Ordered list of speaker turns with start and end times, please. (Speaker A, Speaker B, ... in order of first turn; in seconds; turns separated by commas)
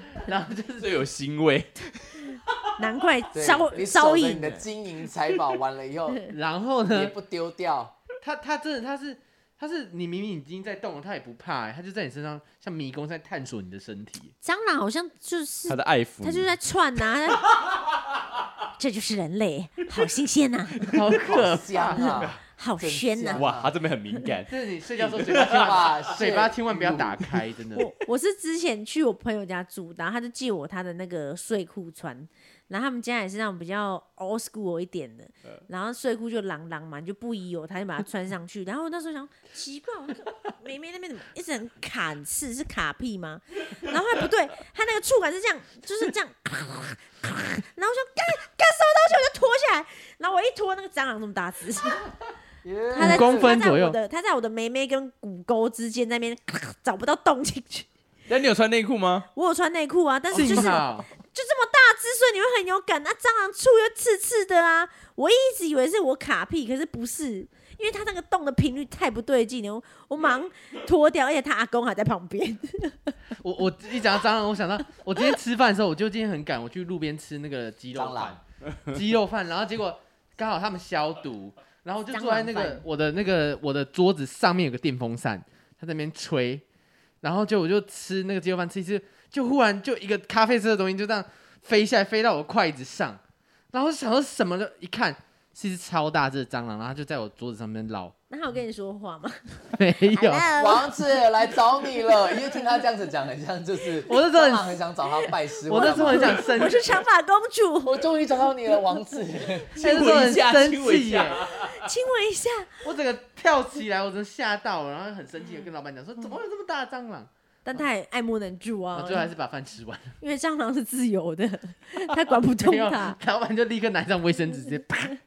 Speaker A: 0.2-1.0, Speaker B: 0.8-2.8, Speaker C: 2.8-4.7, Speaker D: 3.3-6.3, Speaker A: 6.3-7.1, Speaker D: 6.9-8.0, Speaker A: 8.2-14.3, Speaker C: 14.4-17.5, Speaker B: 15.7-16.6, Speaker C: 18.8-20.9, Speaker A: 20.9-22.1, Speaker D: 21.2-23.7, Speaker C: 22.0-23.5, Speaker B: 22.1-22.4, Speaker B: 23.3-26.1, Speaker A: 24.5-27.9, Speaker D: 25.5-27.2, Speaker C: 27.8-52.1, Speaker D: 52.6-53.6, Speaker C: 52.9-57.9, Speaker A: 53.0-54.0, Speaker B: 58.3-59.3, Speaker C: 59.3-73.2, Speaker A: 60.3-61.1, Speaker B: 60.4-60.6, Speaker A: 73.4-86.7, Speaker D: 77.9-78.4, Speaker C: 82.1-82.8, Speaker A: 87.2-93.2, Speaker A: 93.7-98.1, Speaker C: 98.3-101.0, Speaker A: 99.8-100.5, Speaker D: 100.6-106.9, Speaker A: 104.1-104.8, Speaker A: 105.7-107.0, Speaker C: 105.7-108.1, Speaker D: 107.8-109.9, Speaker B: 109.8-111.9, Speaker A: 109.8-111.5, Speaker C: 111.5-112.8, Speaker A: 112.8-117.8, Speaker C: 117.7-119.3, Speaker A: 118.9-120.2, Speaker C: 120.2-123.2, Speaker A: 122.6-125.2